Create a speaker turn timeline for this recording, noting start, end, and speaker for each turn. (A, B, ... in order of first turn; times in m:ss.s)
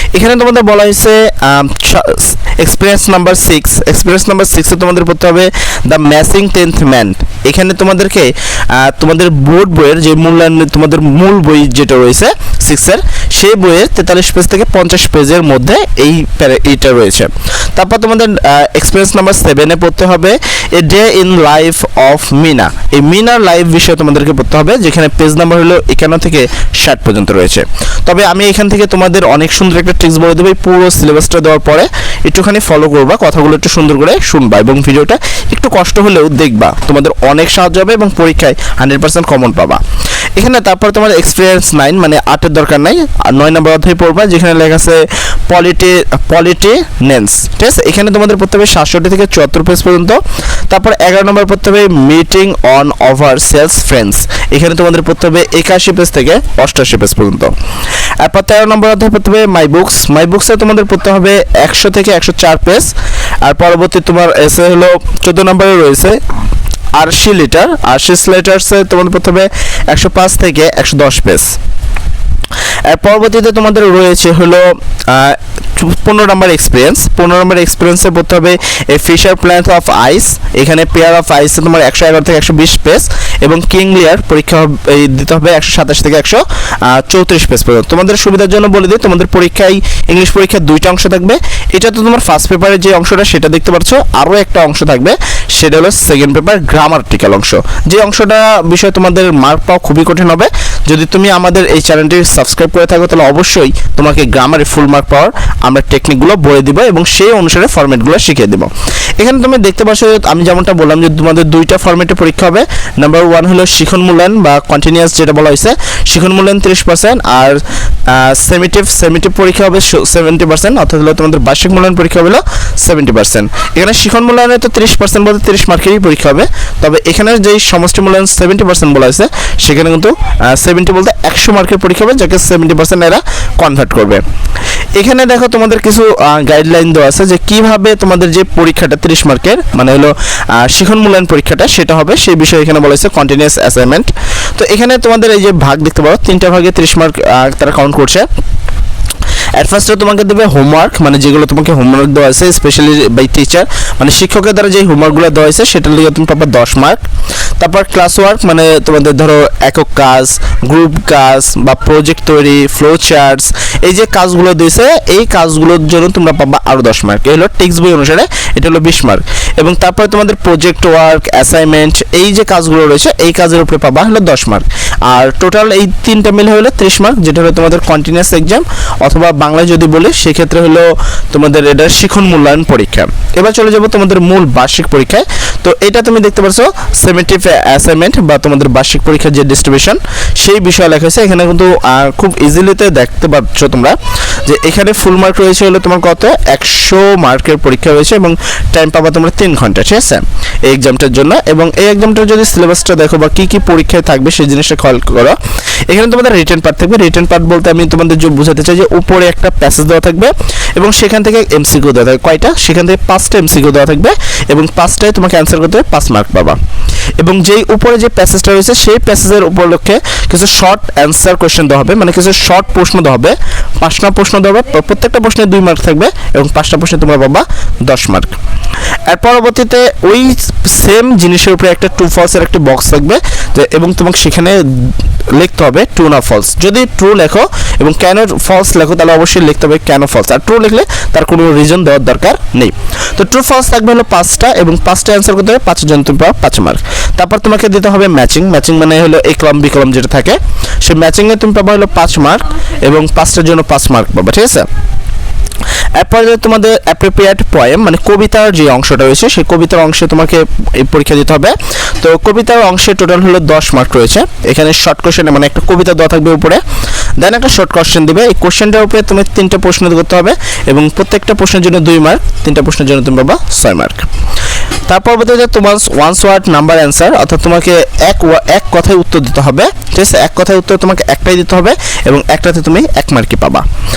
0:00.1-0:39.8 A
0:40.4-0:57.5 A
0:58.2-1:06.2 A
1:07.0-1:11.6 A
1:12.9-2:14.2 A
2:15.0-2:28.3 A
2:29.6-2:37.0 A
2:37.6-3:25.4 A
3:25.9-3:36.6 A
3:37.2-3:48.4 A
3:49.1-4:14.7 A
4:16.0-4:26.6 A
4:27.2-4:34.1 A
4:34.9-4:43.6 A